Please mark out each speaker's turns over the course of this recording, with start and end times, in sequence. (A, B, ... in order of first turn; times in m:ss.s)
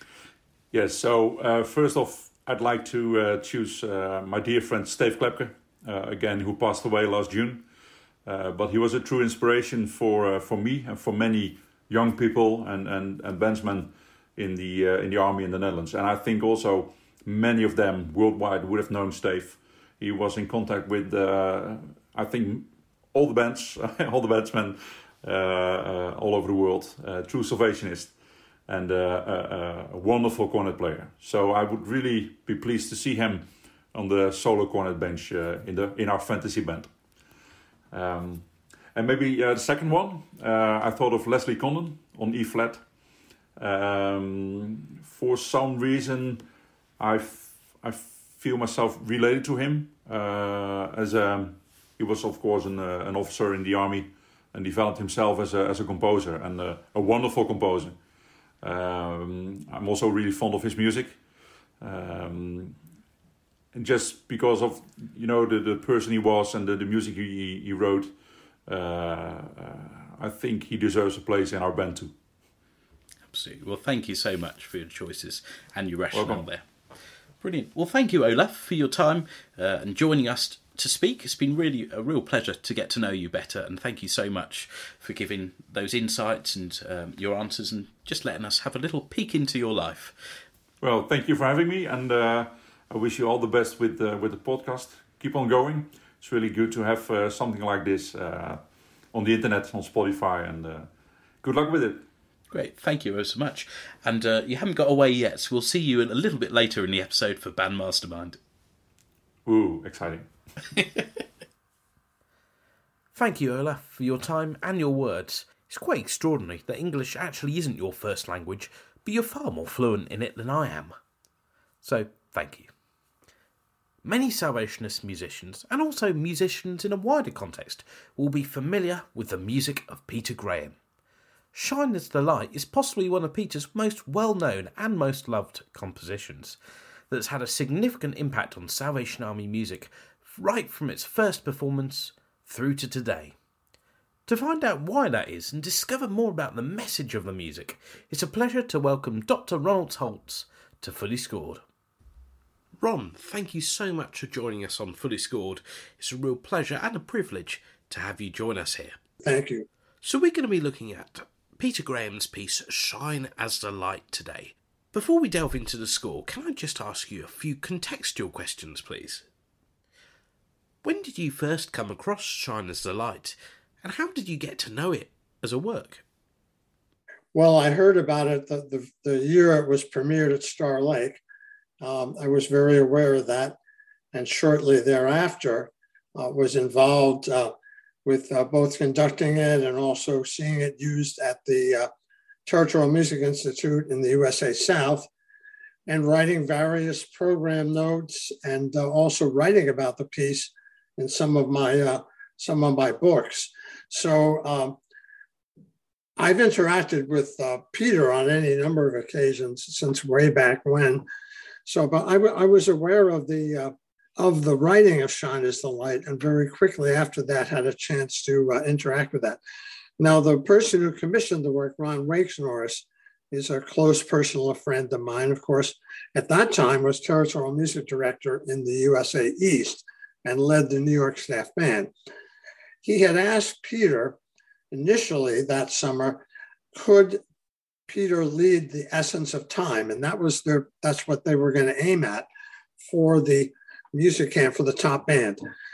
0:00.7-0:07.7 A
0:08.2-0:28.1 A
0:28.7-0:36.9 A
0:37.9-0:42.8 A
0:43.6-0:46.4 A
0:47.0-0:58.0 A
0:58.6-1:01.2 A
1:01.8-1:02.8 A
1:03.7-1:08.1 A
1:08.7-1:12.2 A
1:13.3-1:16.6 B
1:16.1-1:16.4 A
1:17.4-1:30.4 B
1:30.8-1:38.6 A
1:39.1-1:40.9 A
1:41.4-1:42.0 A
1:42.5-1:48.4 B
1:49.4-1:50.3 A
1:50.8-1:51.0 B
1:53.1-2:01.0 B
2:01.8-2:02.7 B
2:04.0-2:10.8 B
2:11.5-2:16.6 B
2:17.1-2:23.4 B
2:24.3-2:31.6 B
2:32.8-2:39.0 B
2:39.2-2:39.7 C
2:40.0-2:49.3 B
2:50.8-2:56.0 B
2:57.3-3:01.2 C
3:01.8-3:03.6 C
3:04.1-3:07.5 C
3:08.0-3:11.9 C
3:12.5-3:15.1 C
3:15.9-3:24.8 C
3:26.2-3:31.0 C
3:31.7-3:39.4 C
3:40.0-3:51.9 C
3:52.8-3:54.2 C
3:54.7-3:56.2 C
3:56.8-3:57.2 C
3:57.9-4:02.3 C
4:02.8-4:05.4 C